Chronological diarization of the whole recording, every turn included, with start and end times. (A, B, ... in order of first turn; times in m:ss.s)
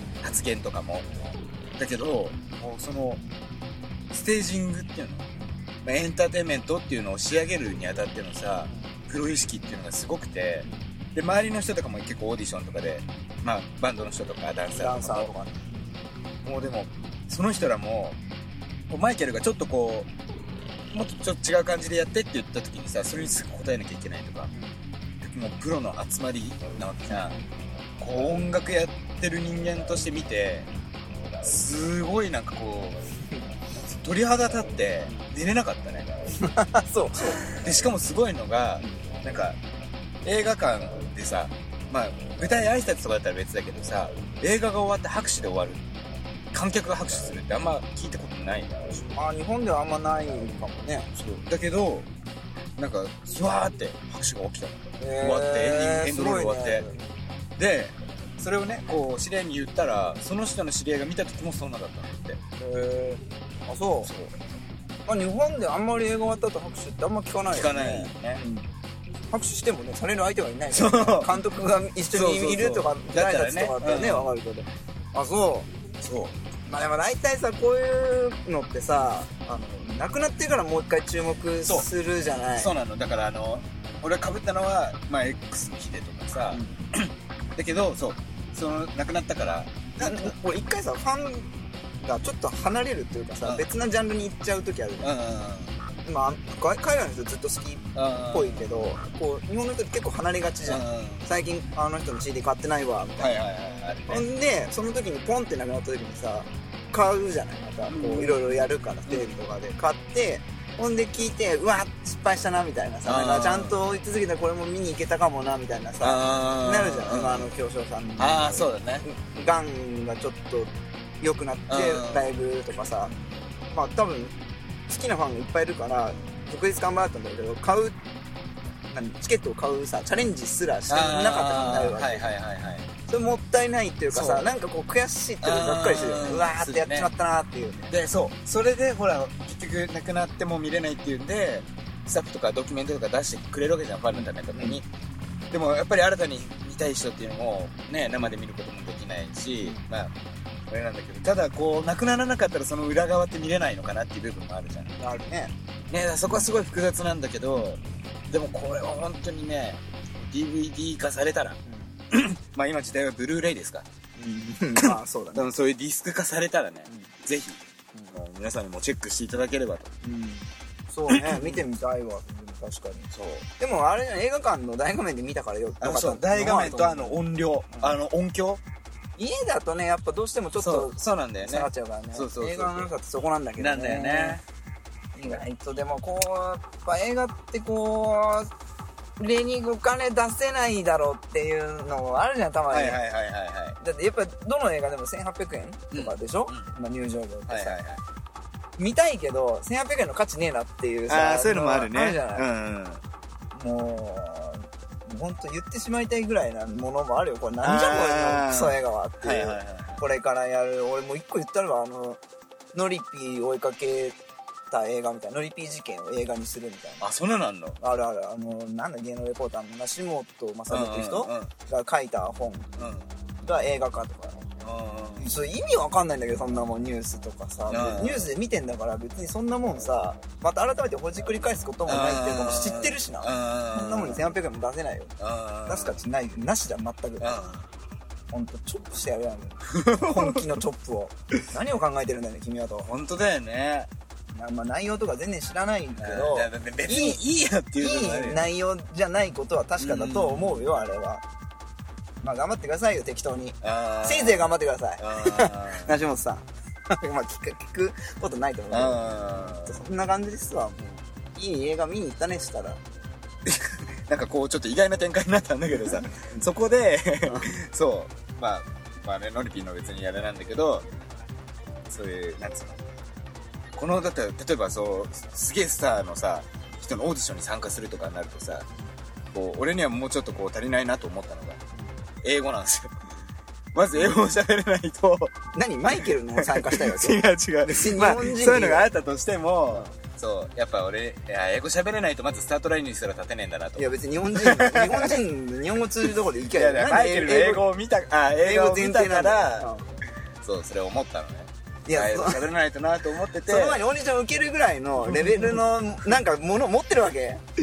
0:00.2-0:01.1 A
0:01.8-0:03.2 A
0:04.1-0:05.3 A
0:05.8-0:15.3 A
0:14.7-0:15.7 B
0:16.4-0:18.2 A
0:18.9-0:20.1 A
0:20.9-0:24.5 A
0:25.2-0:27.4 A
0:27.1-0:27.5 B
0:28.0-0:30.7 A
0:31.4-0:33.0 A
0:33.9-0:36.2 A
0:36.4-0:37.7 B
0:37.4-0:39.6 A
0:40.2-0:45.9 A
0:46.5-0:49.1 A
0:49.1-0:51.1 B
0:51.1-0:52.1 A
0:52.8-0:56.9 A
0:55.0-0:57.0 B
0:57.6-1:02.4 A
1:02.6-1:04.1 B
1:04.0-1:04.4 A
1:05.1-1:08.7 B
1:07.5-1:08.4 A
1:09.3-1:15.7 B
1:10.7-1:11.4 A
1:12.1-1:14.3 A
1:16.0-1:16.4 A
1:16.7-1:22.7 B
1:22.6-1:30.3 A
1:26.5-1:26.8 B
1:30.0-1:31.5 B
1:32.0-1:35.1 B
1:35.0-1:35.8 A
1:36.0-1:43.3 B
1:38.0-1:38.8 A
1:40.7-1:41.3 A
1:43.2-1:44.3 A
1:44.1-2:03.1 B
1:47.9-1:49.4 A
1:53.1-1:53.8 A
1:56.0-1:57.5 A
1:58.2-1:59.0 A
2:01.7-2:02.3 A
2:03.7-2:04.4 B
2:04.9-2:08.0 B
2:08.9-2:12.2 B
2:10.9-2:12.9 A
2:13.1-2:17.9 B
2:14.1-2:14.5 A
2:15.4-2:17.1 A
2:17.9-2:24.9 A
2:24.2-2:24.8 B
2:25.5-2:30.1 A
2:30.7-2:35.0 A
2:35.0-2:35.5 B
2:35.9-2:41.6 A
2:41.7-2:41.9 B
2:42.1-2:43.9 A
2:44.2-2:45.5 B
2:44.8-2:47.6 A
2:48.1-2:49.9 A
2:50.0-2:57.9 B
2:51.1-2:51.6 A
2:53.1-2:53.5 A
2:55.8-2:58.6 A
2:59.2-3:04.4 B
3:00.6-3:02.9 A
3:03.6-3:04.4 A
3:05.2-3:08.5 B
3:09.2-3:13.0 B
3:12.7-3:13.8 A
3:13.8-3:17.8 B
3:15.9-3:16.7 A
3:17.5-3:18.0 A
3:18.8-3:22.4 B
3:21.1-3:23.0 A
3:23.6-3:32.2 B
3:27.6-3:30.0 A
3:32.7-3:34.2 B
3:34.7-3:37.1 B
3:37.0-3:37.8 A
3:37.8-3:42.8 B
3:40.7-3:41.5 A
3:42.8-3:43.1 A
3:43.4-3:44.5 B
3:44.6-3:45.3 A
3:45.2-3:55.1 B
3:47.7-3:48.3 A
3:51.9-3:54.3 A
3:55.2-3:56.0 A
3:55.7-3:57.4 B
3:57.2-3:57.7 A
3:58.3-4:02.9 B
3:59.7-4:00.4 A
4:02.9-4:03.9 A
4:04.3-4:07.2 B
4:06.0-4:08.5 A
4:07.8-4:11.2 B
4:09.8-4:10.8 A
4:12.2-4:19.1 B
4:13.6-4:16.0 A
4:18.7-4:19.8 A
4:19.6-4:22.8 B
4:23.4-4:30.9 A
4:31.9-4:32.8 A
4:33.7-4:38.7 A
4:39.3-4:41.6 A
4:42.2-4:43.1 A
4:43.7-4:45.4 A
4:45.5-4:48.9 B
4:46.0-4:55.2 A
4:53.8-4:57.7 B
4:56.4-4:59.7 A
4:58.4-4:59.9 B
5:00.4-5:03.8 A
5:01.9-5:02.4 B
5:03.5-5:07.4 B
5:05.1-5:05.6 A